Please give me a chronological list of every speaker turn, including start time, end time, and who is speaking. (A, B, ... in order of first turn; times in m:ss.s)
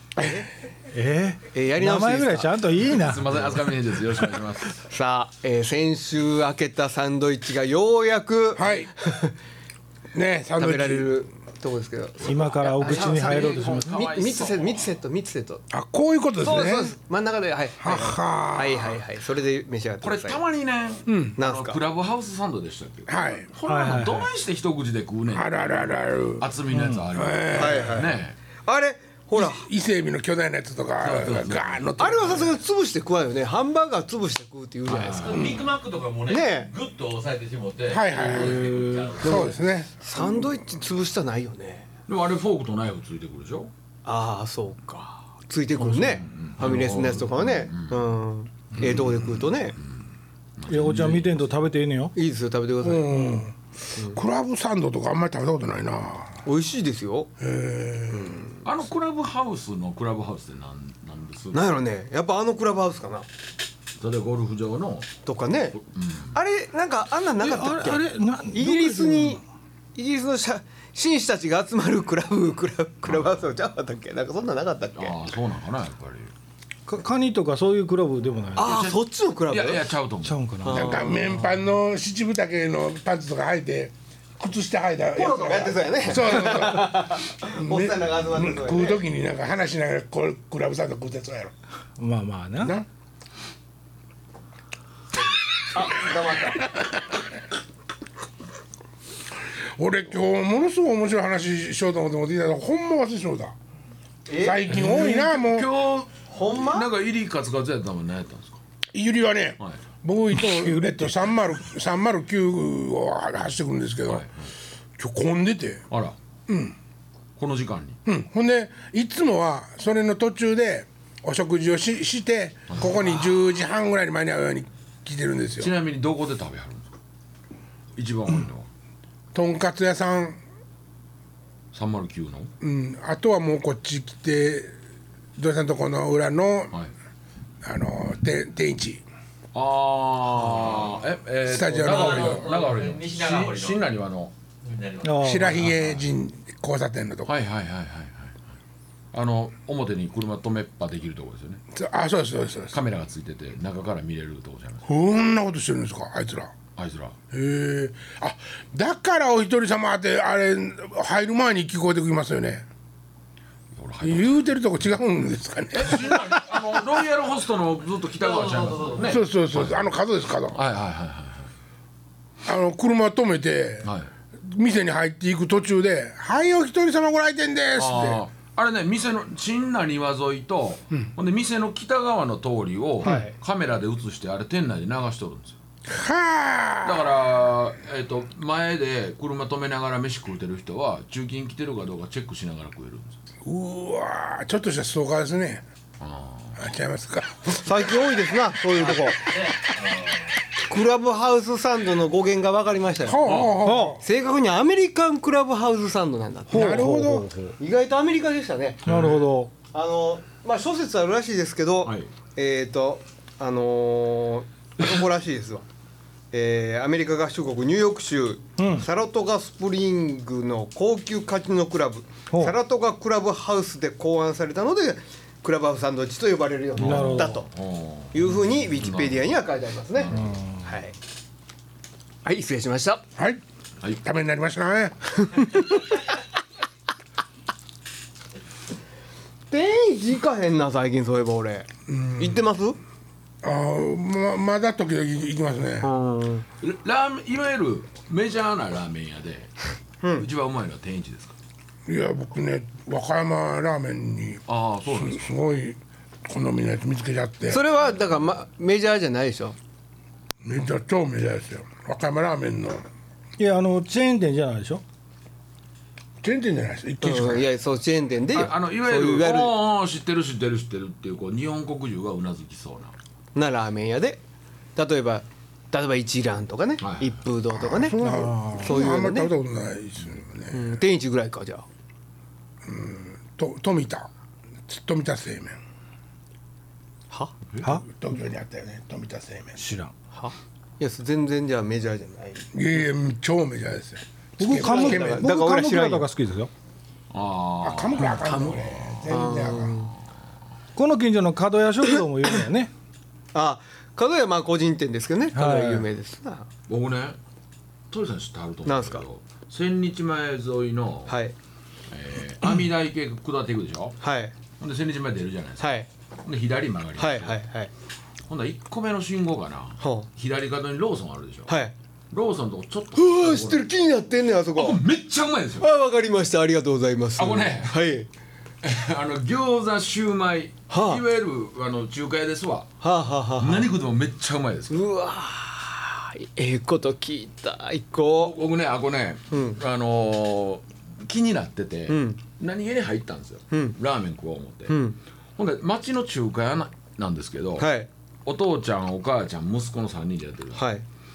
0:00.2-0:00.5 A
0:00.9-0:03.5 B
0:01.5-0:02.5 A
0:02.8-0:04.8 C
0:04.9-0:09.3 A
0:08.6-0:08.9 D
0:10.1-0:11.1 D
0:10.6-0:15.6 A
0:12.2-0:13.9 B
0:12.8-0:14.9 C
0:15.7-0:16.9 D
0:16.4-0:20.4 A
0:17.8-0:19.0 D
0:20.0-0:28.3 C
0:21.1-0:21.4 D
0:21.4-0:21.8 A
0:23.1-0:23.5 D
0:23.6-0:24.3 B
0:25.3-0:26.4 D
0:26.7-0:27.0 B
0:27.1-0:28.0 D
0:27.5-0:29.6 A
0:29.3-0:32.5 D
0:31.0-0:31.8 C
0:32.0-0:35.5 A
0:34.9-0:39.4 E
0:35.3-0:35.7 D
0:36.3-0:36.7 A
0:37.9-0:40.5 D
0:38.3-0:39.0 C
0:39.2-0:41.9 A
0:42.1-0:43.7 C
0:44.0-0:49.8 A
0:45.8-0:48.0 C
0:48.7-0:51.7 C
0:50.7-0:52.1 B
0:52.1-0:53.2 A
0:52.8-0:53.5 D
0:53.9-0:54.2 A
0:54.1-0:56.4 D
0:56.4-0:57.3 A
0:57.4-0:58.4 D
0:58.1-0:58.4 A
0:58.6-1:01.7 C
1:01.5-1:03.2 A
1:04.0-1:05.1 C
1:05.2-1:05.8 A
1:05.7-1:06.4 C
1:06.3-1:09.4 A
1:07.4-1:09.4 B
1:10.0-1:15.2 A
1:13.0-1:13.5 C
1:14.9-1:16.3 C
1:16.9-1:18.7 B
1:18.5-1:19.9 A
1:18.6-1:20.4 C
1:20.2-1:21.4 B
1:20.6-1:21.2 A
1:20.7-1:31.5 D
1:25.1-1:29.0 A
1:32.0-1:32.7 B
1:32.6-1:32.9 D
1:35.7-1:36.7 A
1:39.8-1:43.5 D
1:44.3-1:44.8 A
1:44.4-1:45.7 D
1:44.7-1:48.6 C
1:46.3-1:46.9 A
1:48.9-1:54.2 D
1:54.1-1:54.3 C
1:55.0-1:55.8 D
1:55.9-1:56.2 C
1:56.5-1:56.7 D
1:57.4-1:58.0 C
1:58.0-2:05.7 D
2:05.6-2:06.9 C
2:08.0-2:08.7 C
2:09.3-2:10.4 D
2:11.7-2:12.5 C
2:12.6-2:14.7 D
2:15.4-2:16.7 D
2:17.6-2:19.0 D
2:19.5-2:24.3 C
2:21.4-2:22.4 D
2:21.8-2:23.8 E
2:24.6-2:25.2 E
2:25.0-2:25.7 B
2:25.2-2:27.3 D
2:25.6-2:26.0 C
2:27.2-2:28.4 C
2:29.1-2:31.6 C
2:31.7-2:32.8 D
2:32.7-2:34.8 C
2:34.8-2:36.5 D
2:36.8-2:37.2 C
2:37.3-2:42.6 D
2:43.7-2:44.4 C
2:44.0-2:46.3 D
2:45.7-2:49.8 C
2:48.3-2:49.1 E
2:49.0-2:50.6 D
2:50.5-2:51.5 C
2:52.4-2:53.9 D
2:53.8-2:54.1 C
2:54.4-2:58.2 D
2:57.8-3:05.6 C
3:03.0-3:03.3 A
3:05.9-3:07.1 D
3:06.8-3:13.2 C
3:13.4-3:15.6 D
3:16.0-3:16.6 C
3:16.6-3:17.8 D
3:17.5-3:19.4 A
3:20.7-3:23.2 A
3:23.0-3:24.0 D
3:23.2-3:23.6 C
3:23.6-3:24.0 B
3:24.0-3:26.9 A
3:26.5-3:27.6 B
3:26.5-3:27.3 D
3:27.6-3:28.9 A
3:28.8-3:29.3 C
3:28.8-3:29.5 B
3:29.6-3:35.6 A
3:36.3-3:47.5 A
3:38.6-3:38.8 B
3:42.3-3:42.6 B
3:46.8-3:49.4 C
3:46.8-3:47.4 B
3:48.1-3:51.0 A
3:49.9-3:50.4 C
3:50.1-3:50.6 B
3:52.2-3:53.0 A
3:53.2-3:53.4 D
3:54.0-3:55.7 D
3:59.5-4:02.8 A
4:01.9-4:02.4 D
4:03.4-4:05.9 D
4:05.8-4:06.4 A
4:06.6-4:09.5 C
4:10.2-4:11.3 C
4:11.9-4:17.6 D
4:14.5-4:15.3 C
4:17.5-4:19.6 A
4:20.4-4:22.8 D
4:23.4-4:24.8 B
4:26.2-4:27.5 D
4:27.0-4:29.5 A
4:28.3-4:32.9 C
4:33.3-4:34.2 A
4:34.8-4:38.0 A
4:36.8-4:37.1 C
4:37.6-4:40.6 D
4:38.0-4:38.8 B
4:38.6-4:39.3 A
4:40.5-4:41.6 A
4:42.6-4:44.1 D
4:44.7-4:45.6 D
4:47.6-4:49.6 D
4:49.6-4:49.9 B
4:50.1-4:52.4 A
4:52.5-4:55.3 D
4:54.4-4:56.5 B
4:54.5-4:56.1 A
4:57.1-4:58.1 C
4:57.6-4:59.9 D
4:58.0-4:59.9 A
5:00.8-5:02.7 B
5:03.3-5:06.5 A
5:05.3-5:05.8 B
5:06.7-5:07.2 C
5:07.9-5:11.1 C
5:08.6-5:09.0 A
5:11.1-5:11.3 A
5:11.9-5:14.0 C
5:14.0-5:14.3 A
5:14.6-5:15.7 C
5:15.6-5:15.9 A
5:16.2-5:17.4 C
5:17.0-5:17.7 A
5:18.3-5:21.5 C
5:19.8-5:20.1 A
5:21.5-5:21.7 A
5:22.1-5:23.6 C
5:22.9-5:24.8 A
5:24.6-5:25.7 C
5:25.6-5:28.1 A
5:27.2-5:27.8 C
5:28.6-5:32.7 C
5:30.7-5:31.0 A
5:32.8-5:33.7 A
5:33.4-5:34.8 C
5:34.7-5:38.3 A
5:38.2-5:44.8 C
5:39.3-5:39.6 A
5:41.9-5:42.2 A
5:43.5-5:43.8 A
5:44.7-5:45.0 A
5:45.4-5:47.7 C
5:47.6-5:47.9 A
5:48.2-5:50.6 C
5:50.5-5:50.8 A